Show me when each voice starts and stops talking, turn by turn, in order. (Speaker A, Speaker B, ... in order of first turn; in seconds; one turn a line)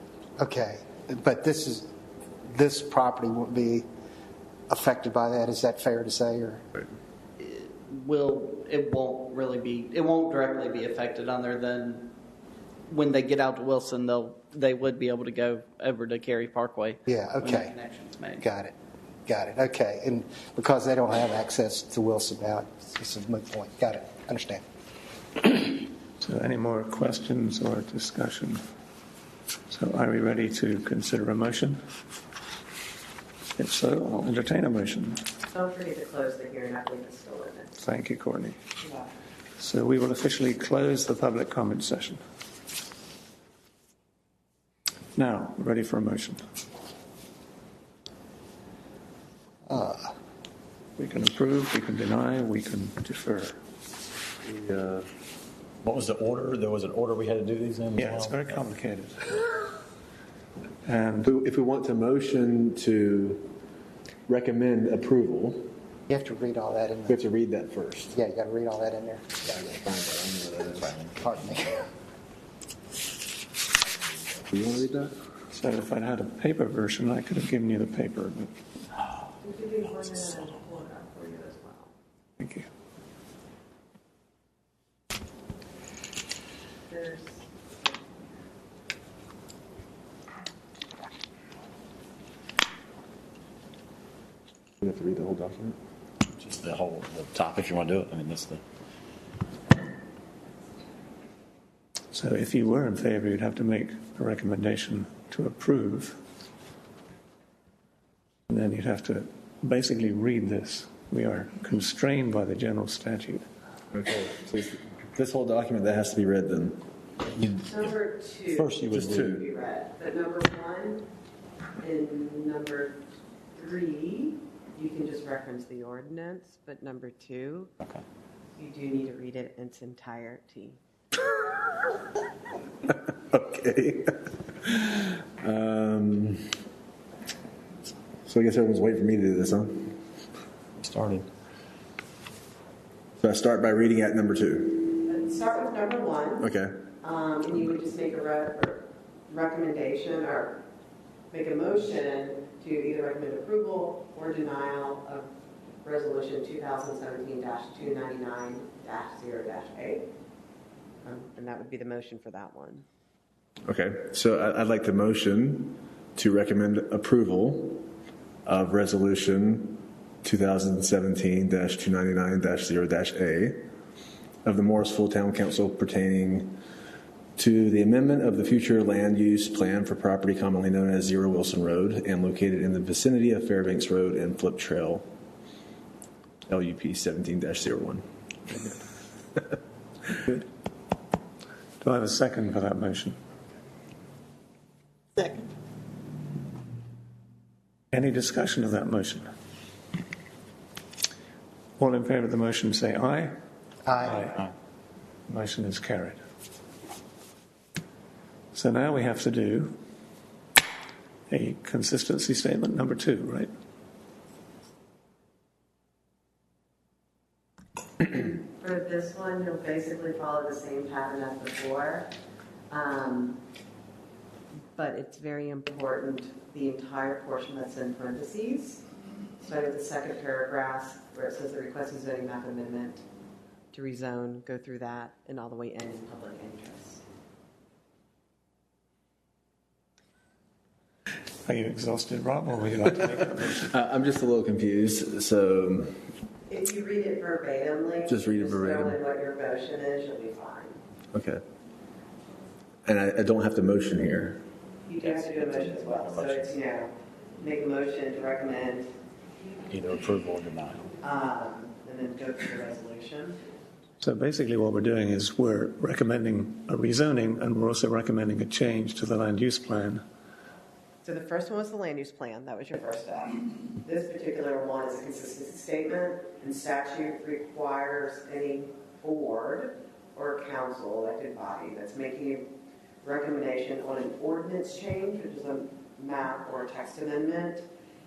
Speaker A: 0.4-1.9
Speaker A: 2.5-3.9
Speaker A: 4.7-6.6
Speaker B: 7.4-12.1
Speaker B: 12.9-18.4
Speaker A: 17.1-17.8
Speaker A: 18.4-18.7
Speaker A: 19.3-24.6
Speaker C: 26.2-28.6
Speaker C: 29.7-31.8
Speaker C: 33.6-35.2
Speaker D: 35.5-37.8
Speaker C: 37.8-38.6
Speaker D: 38.8-39.1
Speaker C: 39.6-42.2
Speaker C: 45.2-46.4
Speaker A: 49.7-50.0
Speaker C: 51.0-53.6
Speaker E: 54.5-55.0
Speaker F: 55.8-58.6
Speaker C: 58.0-59.4
Speaker C: 60.8-61.3
Speaker E: 61.2-63.5
Speaker E: 64.3-65.7
Speaker A: 66.1-67.2
Speaker E: 67.1-68.2
Speaker A: 68.1-69.3
Speaker E: 69.5-71.0
Speaker A: 71.2-71.9
Speaker E: 74.5-75.2
Speaker C: 75.5-78.5
Speaker D: 79.4-81.9
Speaker C: 82.4-82.7
Speaker D: 86.9-87.9
Speaker E: 94.8-95.8
Speaker F: 96.3-98.6
Speaker C: 102.1-106.2
Speaker C: 108.5-113.4
Speaker E: 113.9-116.8
Speaker D: 117.5-121.0
Speaker F: 118.5-119.2
Speaker E: 118.9-119.4
Speaker D: 121.8-123.0
Speaker D: 123.5-127.7
Speaker D: 128.6-130.8
Speaker E: 132.9-136.6
Speaker E: 138.2-140.0
Speaker E: 140.8-141.2
Speaker E: 143.2-145.0
Speaker D: 145.1-146.5
Speaker E: 146.4-146.8
Speaker D: 147.0-150.6
Speaker D: 151.3-155.3
Speaker D: 155.8-160.1
Speaker D: 161.0-162.8
Speaker E: 163.7-167.9
Speaker E: 168.5-173.7
Speaker E: 174.4-176.6
Speaker E: 177.4-185.1
Speaker E: 186.5-188.8
Speaker C: 191.8-193.2
Speaker C: 197.9-199.3
Speaker C: 201.8-203.3
Speaker A: 203.8-204.3
Speaker C: 204.0-204.4
Speaker C: 205.3-206.2
Speaker C: 208.5-209.7
Speaker C: 211.3-213.5
Speaker D: 218.0-222.1
Speaker D: 222.7-223.4
Speaker D: 224.8-228.8
Speaker D: 229.4-233.0
Speaker D: 233.7-237.0
Speaker C: 241.5-243.7
Speaker E: 243.5-246.0
Speaker D: 246.5-250.8
Speaker E: 248.1-249.0
Speaker E: 251.1-251.4
Speaker E: 252.9-254.4
Speaker D: 254.9-258.9
Speaker F: 255.0-256.5
Speaker F: 259.7-260.9
Speaker D: 261.0-263.4
Speaker C: 264.0-270.0
Speaker D: 271.0-282.5
Speaker D: 283.0-287.7